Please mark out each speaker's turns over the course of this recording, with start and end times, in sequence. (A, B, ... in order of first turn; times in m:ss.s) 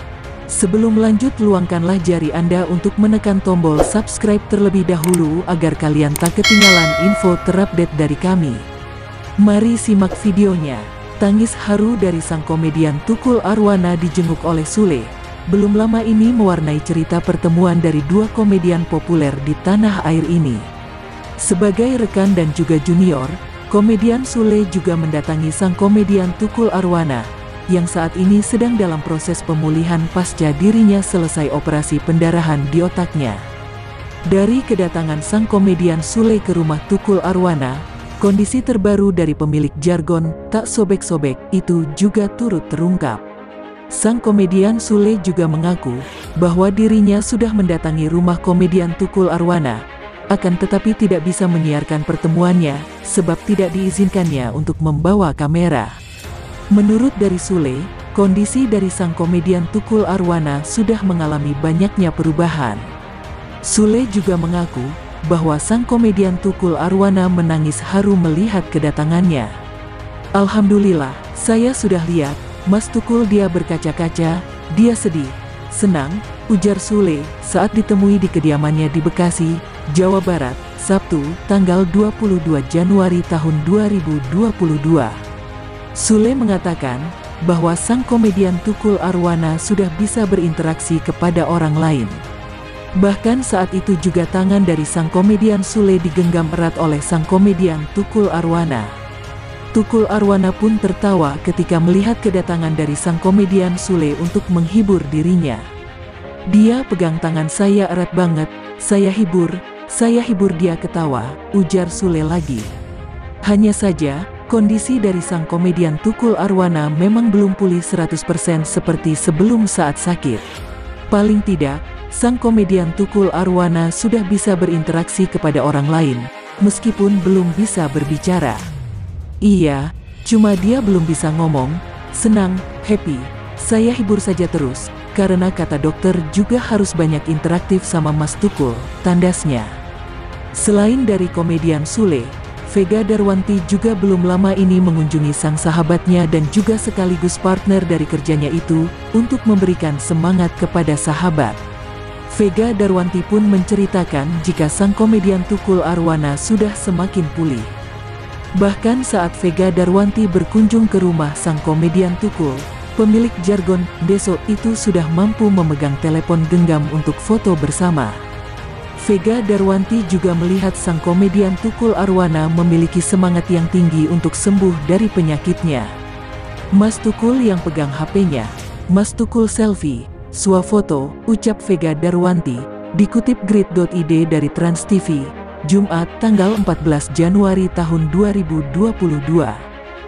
0:00.5-0:08.6 A
0:09.4-0:20.7 A
0:21.4-0:33.4 A
0:34.3-0:43.2 A
0:43.9-0:56.0 A
0:56.7-1:02.9 A
1:03.7-1:09.6 A
1:10.4-1:25.2 A
1:26.0-1:32.2 A
1:33.0-1:38.9 A
1:39.7-1:45.7 A
1:46.5-1:52.7 A
1:53.4-2:00.5 A
2:01.1-2:08.7 A
2:09.4-2:19.8 A
2:20.6-2:31.6 A
2:32.3-2:37.7 A
2:38.6-2:48.2 A
2:49.0-2:55.9 A
2:56.7-3:09.6 A